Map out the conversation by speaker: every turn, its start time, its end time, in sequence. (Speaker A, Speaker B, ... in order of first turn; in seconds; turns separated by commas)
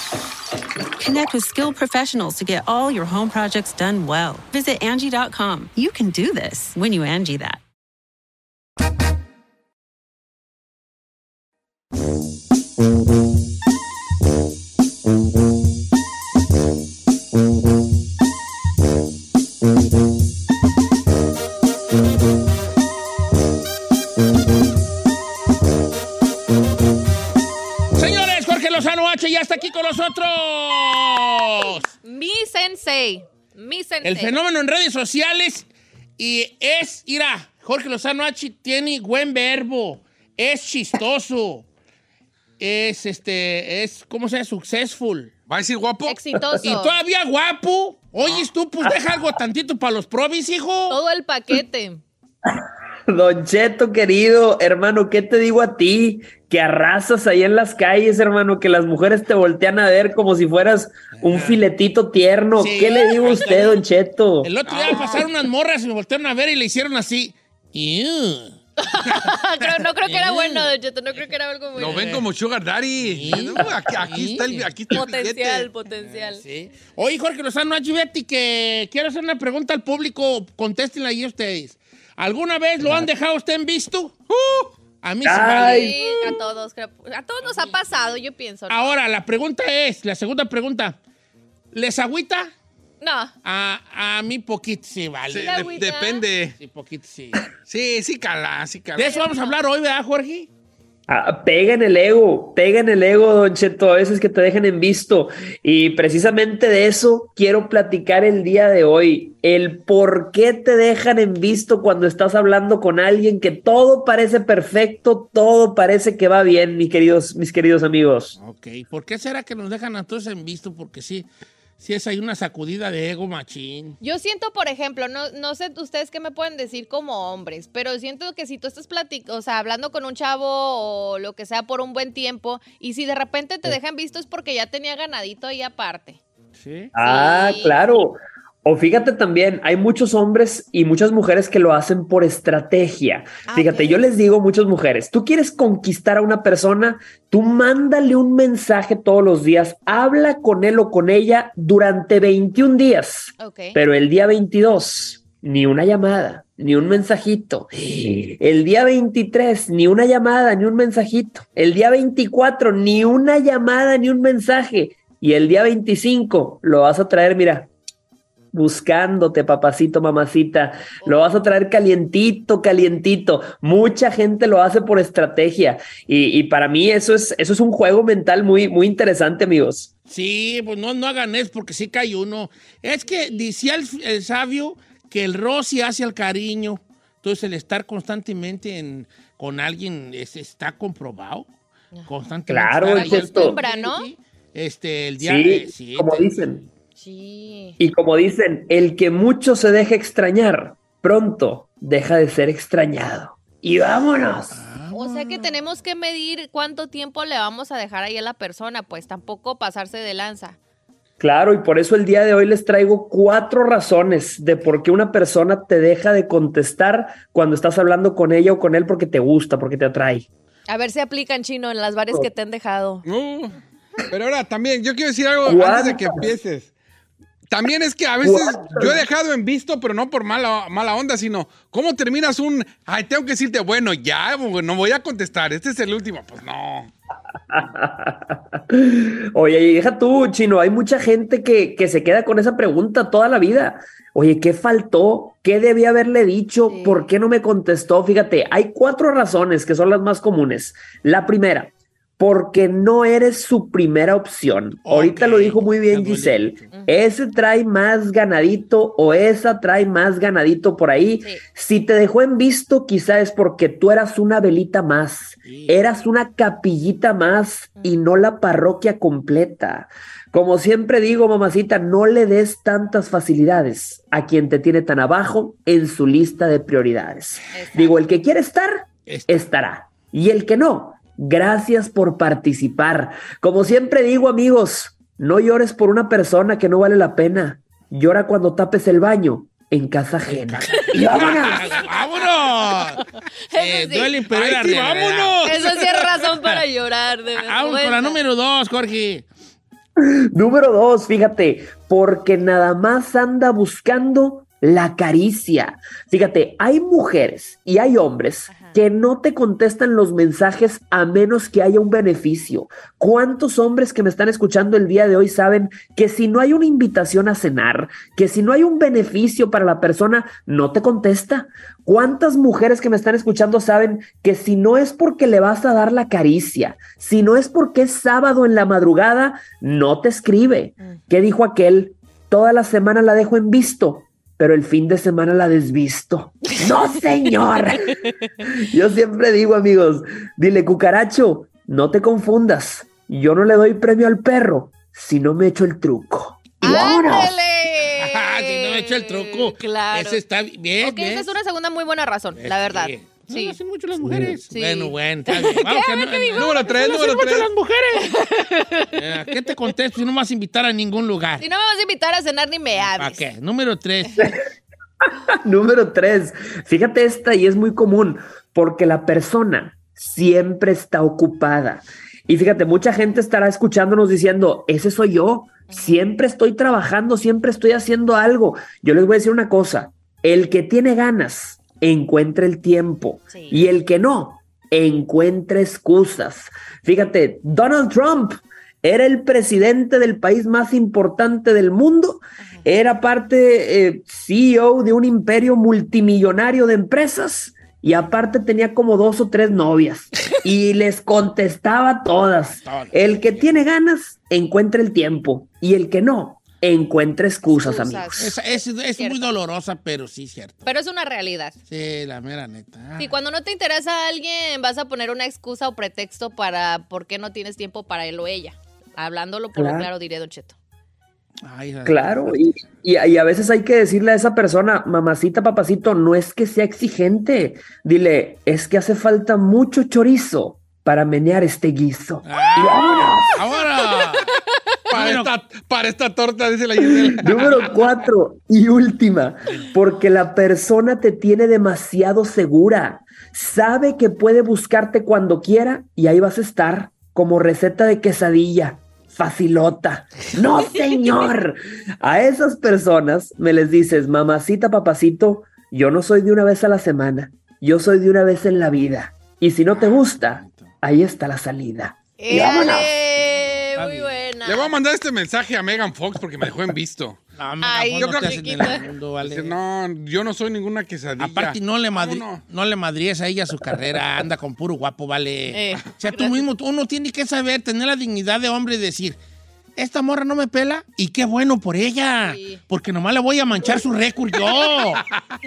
Speaker A: 1.0-7.6, Speaker B: 27.9-31.9, Speaker C: 32.0-34.4, Speaker B: 34.0-35.7, Speaker B: 36.2-41.6, Speaker B: 42.6-45.3, Speaker D: 45.5-46.2, Speaker C: 46.0-47.0, Speaker B: 46.6-51.0, Speaker E: 48.3-48.9, Speaker C: 50.9-52.0, Speaker E: 52.5-64.5, Speaker B: 61.1-61.6, Speaker B: 62.5-63.8, Speaker B: 64.4-68.6, Speaker D: 64.7-65.2, Speaker C: 64.9-65.2, Speaker C: 68.8-72.2, Speaker B: 69.6-71.3, Speaker D: 71.7-75.7, Speaker B: 71.8-72.2, Speaker B: 73.0-74.7, Speaker C: 74.9-76.4, Speaker B: 76.0-84.2, Speaker D: 84.3-84.7, Speaker B: 85.0-86.3, Speaker E: 85.2-86.0, Speaker C: 85.7-88.9, Speaker B: 87.4-87.8, Speaker B: 88.7-91.0, Speaker B: 91.7-92.5, Speaker C: 93.0-93.3, Speaker B: 93.4-95.7, Speaker D: 95.3-96.5, Speaker C: 95.4-96.2, Speaker B: 96.6-97.4, Speaker D: 97.7-99.2, Speaker B: 99.0-100.5, Speaker C: 99.0-99.5, Speaker E: 101.1-118.3, Speaker B: 118.4-121.3, Speaker B: 121.8-124.0, Speaker C: 124.0-136.2, Speaker B: 136.6-136.9, Speaker E: 136.9-167.7, Speaker C: 137.0-137.8, Speaker C: 143.5-144.0, Speaker C: 153.4-153.8, Speaker E: 168.5-179.9, Speaker B: 180.1-191.5, Speaker C: 183.1-183.4, Speaker B: 192.1-196.4, Speaker E: 192.5-193.6, Speaker C: 192.9-194.1, Speaker E: 195.2-196.6, Speaker C: 197.0-197.8, Speaker E: 197.8-204.6, Speaker B: 204.5-205.6, Speaker C: 204.9-210.6, Speaker E: 211.2-220.2, Speaker C: 220.7-223.0, Speaker D: 223.0-223.5, Speaker D: 224.1-226.7, Speaker E: 225.4-226.3, Speaker D: 227.5-236.9, Speaker E: 228.2-229.0, Speaker E: 237.5-291.6, Speaker C: 246.7-247.1, Speaker B: 254.8-256.7, Speaker C: 256.7-257.0, Speaker B: 265.4-265.8, Speaker C: 277.5-278.0, Speaker B: 279.1-279.4, Speaker B: 290.2-293.0, Speaker C: 290.7-291.1, Speaker C: 293.5-294.2, Speaker B: 293.5-296.6, Speaker D: 294.3-296.0, Speaker C: 295.4-298.2, Speaker B: 297.3-299.3, Speaker E: 300.3-347.4, Speaker C: 308.5-308.8, Speaker C: 346.6-350.2, Speaker B: 348.0-351.3, Speaker C: 350.8-353.6, Speaker B: 352.3-356.5, Speaker C: 354.5-357.4, Speaker D: 356.3-357.5, Speaker B: 357.1-358.1, Speaker C: 357.9-358.9, Speaker B: 359.0-361.4, Speaker C: 361.4-363.2, Speaker B: 362.8-364.2, Speaker E: 365.3-408.3, Speaker C: 375.7-376.0, Speaker C: 383.3-383.6, Speaker B: 402.6-403.5, Speaker C: 407.5-408.4, Speaker B: 408.1-410.7, Speaker C: 409.0-409.3, Speaker C: 410.6-411.6, Speaker B: 411.7-413.1, Speaker C: 413.0-420.6, Speaker E: 419.5-419.9, Speaker B: 421.4-422.4, Speaker E: 421.9-433.3, Speaker B: 432.2-434.3, Speaker C: 432.6-434.6, Speaker D: 434.9-437.7, Speaker B: 434.9-435.3, Speaker E: 436.9-462.9, Speaker B: 459.8-460.6, Speaker C: 462.2-464.7, Speaker B: 463.8-464.2, Speaker D: 464.4-467.2, Speaker B: 467.4-469.6, Speaker C: 467.6-468.8, Speaker D: 468.0-472.4, Speaker B: 471.2-479.2, Speaker C: 475.5-476.4, Speaker B: 479.8-485.0, Speaker C: 482.2-482.6